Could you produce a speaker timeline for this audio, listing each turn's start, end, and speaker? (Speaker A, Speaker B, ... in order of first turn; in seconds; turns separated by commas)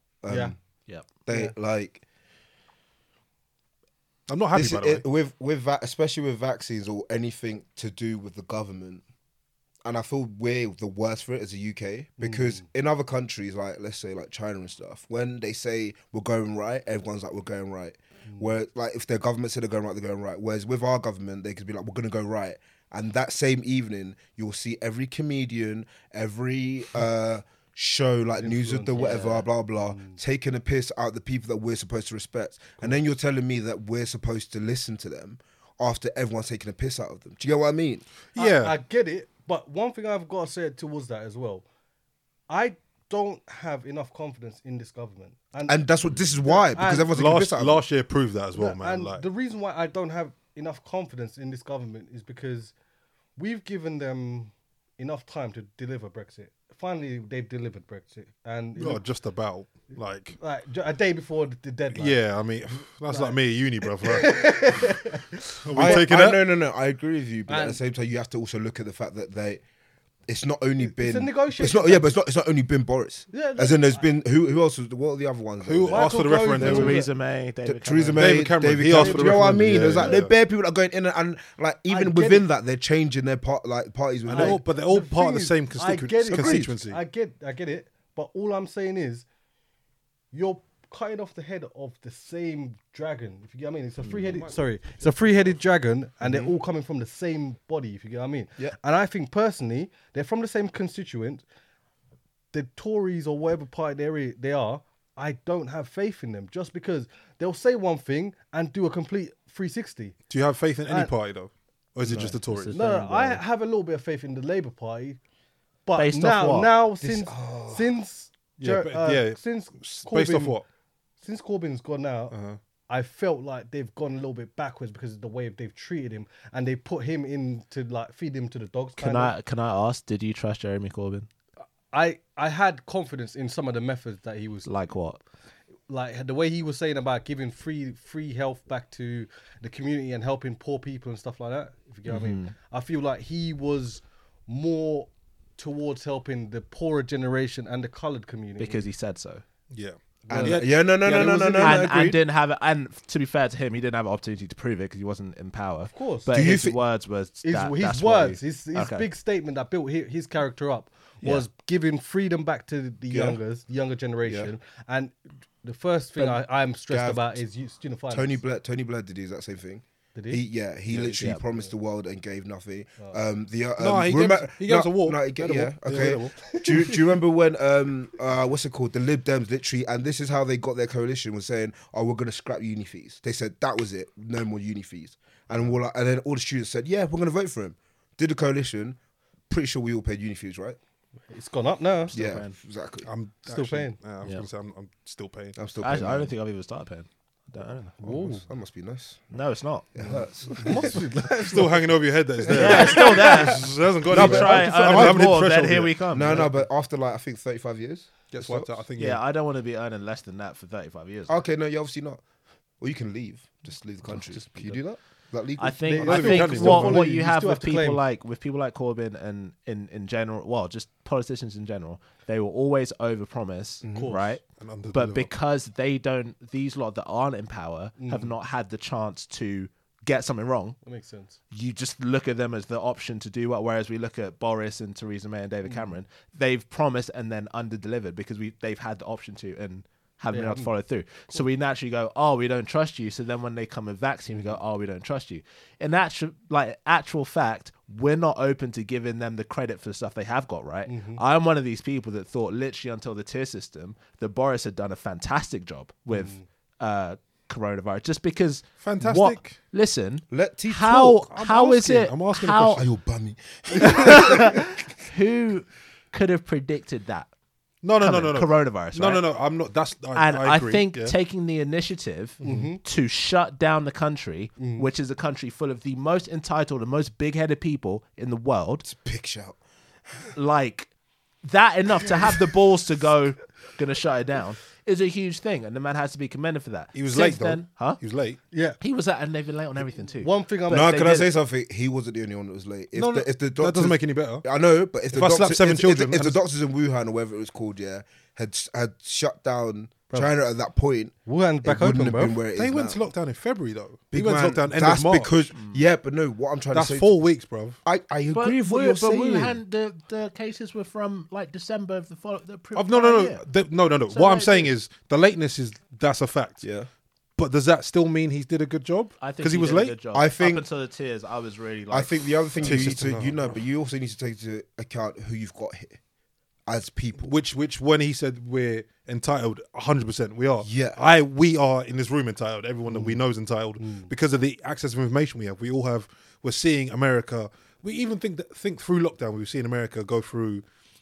Speaker A: 0.2-0.6, Speaker B: 0.3-0.5, Speaker A: 1.2-2.0, Speaker B: 1.3-1.5, Speaker C: 4.3-5.0, Speaker A: 4.5-9.0, Speaker A: 9.8-38.0, Speaker B: 12.2-12.6, Speaker B: 28.4-30.2, Speaker D: 28.9-29.4, Speaker C: 38.3-38.8, Speaker B: 38.4-41.6, Speaker B: 42.5-45.8, Speaker A: 45.7-47.8, Speaker B: 46.4-47.1, Speaker C: 46.8-49.2, Speaker B: 48.5-52.7, Speaker B: 53.4-59.0, Speaker C: 58.8-60.4, Speaker B: 60.4-62.2, Speaker C: 61.9-64.9, Speaker B: 63.1-66.0, Speaker C: 65.6-66.4, Speaker A: 65.7-69.6, Speaker B: 67.5-67.8, Speaker A: 70.3-77.0, Speaker B: 70.8-72.1, Speaker B: 73.3-74.0, Speaker C: 75.6-77.0, Speaker B: 75.9-77.1, Speaker D: 76.5-78.5, Speaker A: 77.6-84.6, Speaker C: 78.2-80.3, Speaker B: 78.9-79.5, Speaker B: 81.9-82.5, Speaker C: 84.3-87.0, Speaker B: 84.3-89.2, Speaker A: 86.3-86.7, Speaker B: 90.3-101.4, Speaker C: 94.1-95.5, Speaker B: 102.5-110.2, Speaker C: 110.3-112.8, Speaker A: 112.0-112.3, Speaker D: 112.2-113.4, Speaker B: 112.7-115.2, Speaker B: 115.8-120.6, Speaker D: 116.0-116.7, Speaker A: 117.0-117.9, Speaker C: 118.6-120.6, Speaker B: 121.2-122.3, Speaker C: 122.3-122.6, Speaker B: 122.9-129.3, Speaker D: 129.0-131.3, Speaker B: 131.9-134.7, Speaker D: 134.6-135.2, Speaker B: 135.9-148.8, Speaker D: 142.1-142.5, Speaker D: 148.6-149.4, Speaker C: 149.7-151.2, Speaker B: 150.3-151.8, Speaker A: 150.3-152.2, Speaker D: 151.1-159.1, Speaker B: 155.9-156.3, Speaker A: 156.3-156.8, Speaker B: 157.4-168.4, Speaker A: 163.1-163.4, Speaker A: 164.2-164.5, Speaker A: 166.2-167.4, Speaker A: 168.1-189.0, Speaker B: 170.1-170.4, Speaker D: 171.1-171.4, Speaker C: 173.8-176.8, Speaker A: 189.5-190.8, Speaker B: 191.3-192.1, Speaker D: 192.1-192.5, Speaker A: 192.1-193.1, Speaker C: 193.0-195.6, Speaker B: 193.4-194.0, Speaker A: 195.6-196.3, Speaker D: 195.8-198.0, Speaker B: 198.0-198.4, Speaker A: 198.0-199.3, Speaker D: 199.3-199.9, Speaker A: 199.9-201.0, Speaker B: 200.0-201.8, Speaker C: 200.6-206.5, Speaker A: 202.4-203.5, Speaker D: 202.5-206.5, Speaker B: 202.7-203.1, Speaker A: 204.1-205.3, Speaker A: 206.1-208.7, Speaker C: 208.3-209.2, Speaker D: 209.0-211.3, Speaker A: 211.3-212.2, Speaker A: 212.8-216.3, Speaker B: 214.3-214.7, Speaker D: 215.6-230.8, Speaker B: 215.8-218.0, Speaker C: 216.0-217.0, Speaker A: 223.8-224.1, Speaker B: 223.9-224.4, Speaker C: 224.6-225.3, Speaker B: 228.0-228.3, Speaker B: 230.8-231.3, Speaker D: 231.5-262.8, Speaker B: 240.3-240.7, Speaker B: 250.9-251.2, Speaker B: 256.1-256.4, Speaker C: 258.8-259.6, Speaker A: 260.3-261.2, Speaker C: 261.1-262.8, Speaker A: 262.7-264.8, Speaker D: 263.8-267.3, Speaker C: 267.8-271.1, Speaker D: 268.0-269.2, Speaker D: 270.1-278.8, Speaker C: 272.4-272.7, Speaker B: 272.4-272.8, Speaker B: 274.6-274.9, Speaker A: 278.8-279.6, Speaker D: 280.3-280.9, Speaker D: 281.4-288.0, Speaker C: 286.9-288.4, Speaker B: 288.5-288.8, Speaker D: 288.8-290.3, Speaker B: 290.2-291.2, Speaker A: 290.7-303.0, Speaker C: 292.9-294.4, Speaker C: 295.1-296.4, Speaker B: 301.2-302.4, Speaker C: 302.6-305.5, Speaker A: 304.1-307.1, Speaker D: 305.5-305.8, Speaker C: 306.7-307.8, Speaker A: 307.8-309.6, Speaker D: 308.3-313.4, Speaker C: 312.7-316.6, Speaker D: 314.1-314.7, Speaker A: 316.6-316.9, Speaker C: 317.4-319.9, Speaker D: 319.2-322.9, Speaker A: 320.1-320.6, Speaker A: 321.9-326.0, Speaker C: 322.6-323.6, Speaker A: 326.7-327.3, Speaker C: 327.2-340.6, Speaker A: 330.6-331.0, Speaker A: 332.9-333.2, Speaker B: 333.8-334.1